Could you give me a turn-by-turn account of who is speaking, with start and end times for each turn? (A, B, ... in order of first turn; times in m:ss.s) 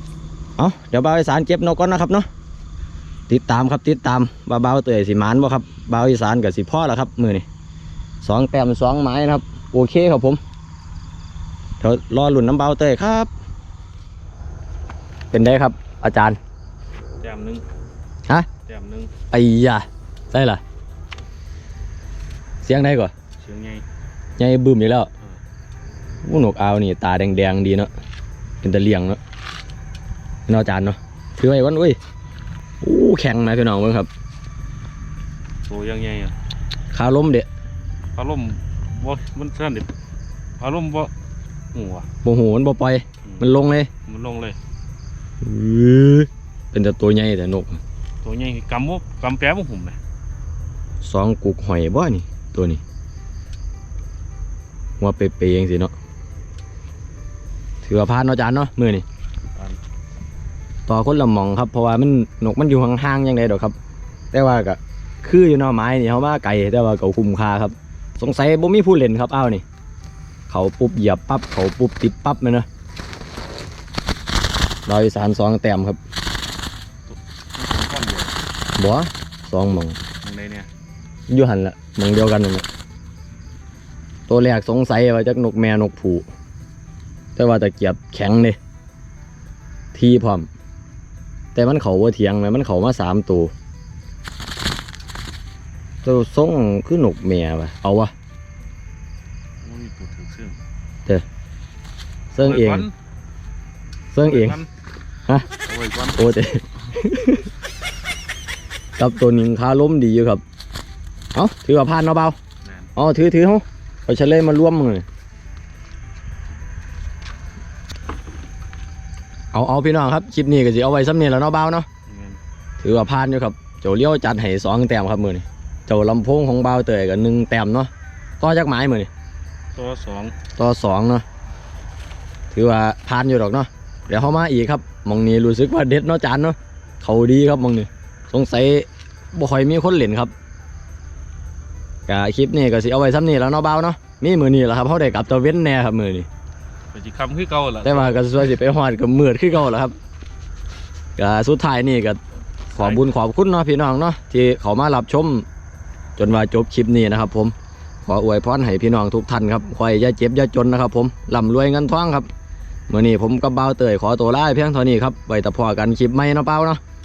0:00.6-0:02.3 A
0:03.3-0:07.5 A
0:08.2-0:10.4 A
0:11.8-0:13.3 A
0:15.3-0:16.4 A
0:17.2-0:17.6 B
0:18.7-0:19.1 B
0:19.3-0:20.6 A
0:22.6-0:23.1 A
0:23.4-0:23.8 B
0:24.4-0:25.1 A
0:26.2-0:27.9 A
0:28.6-0:29.2 A
0:30.5-0:32.0 A
0:32.8-0:34.1 A
0:35.7-0:36.4 B
0:36.9-0:37.5 A
0:38.2-0:39.9 B
0:40.6-0:41.1 B
0:41.7-0:42.1 B
0:42.2-0:43.9 A
0:44.1-0:44.6 B
0:45.4-0:47.8 A
0:48.2-0:50.0 B
0:51.0-0:52.8 A
0:55.0-0:55.9 A
0:57.8-0:59.0 A
1:00.9-1:03.8 A
1:04.3-1:09.6 A
1:10.5-1:12.7 A
1:14.9-1:16.0 A
1:17.1-1:18.4 B
1:18.8-1:20.0 A
1:20.2-1:20.7 B
1:21.3-1:22.7 A
1:24.3-1:26.3 A
1:27.4-1:28.6 A
1:29.9-1:30.5 A
1:31.6-1:33.5 A
1:36.0-1:38.1 A
1:39.6-1:40.6 B
1:42.3-1:42.8 A
1:42.4-1:42.9 B
1:44.1-1:44.6 A
1:44.2-1:44.7 B
1:45.6-1:46.2 B
1:46.2-1:47.5 A
1:49.0-1:50.4 A
1:51.3-1:52.4 A
1:52.6-1:52.9 B
1:53.0-1:55.0 A
1:59.5-2:01.9 A
2:02.1-2:02.4 B
2:02.8-2:09.1 A
2:09.8-2:10.4 B
2:10.6-2:11.2 A
2:12.5-2:20.3 A
2:22.1-2:26.3 A
2:26.9-2:28.2 B
2:27.8-2:30.0 A
2:31.2-2:32.2 A
2:32.7-2:35.4 A
2:32.8-2:33.1 B
2:36.2-2:42.3 A
2:42.9-2:46.8 A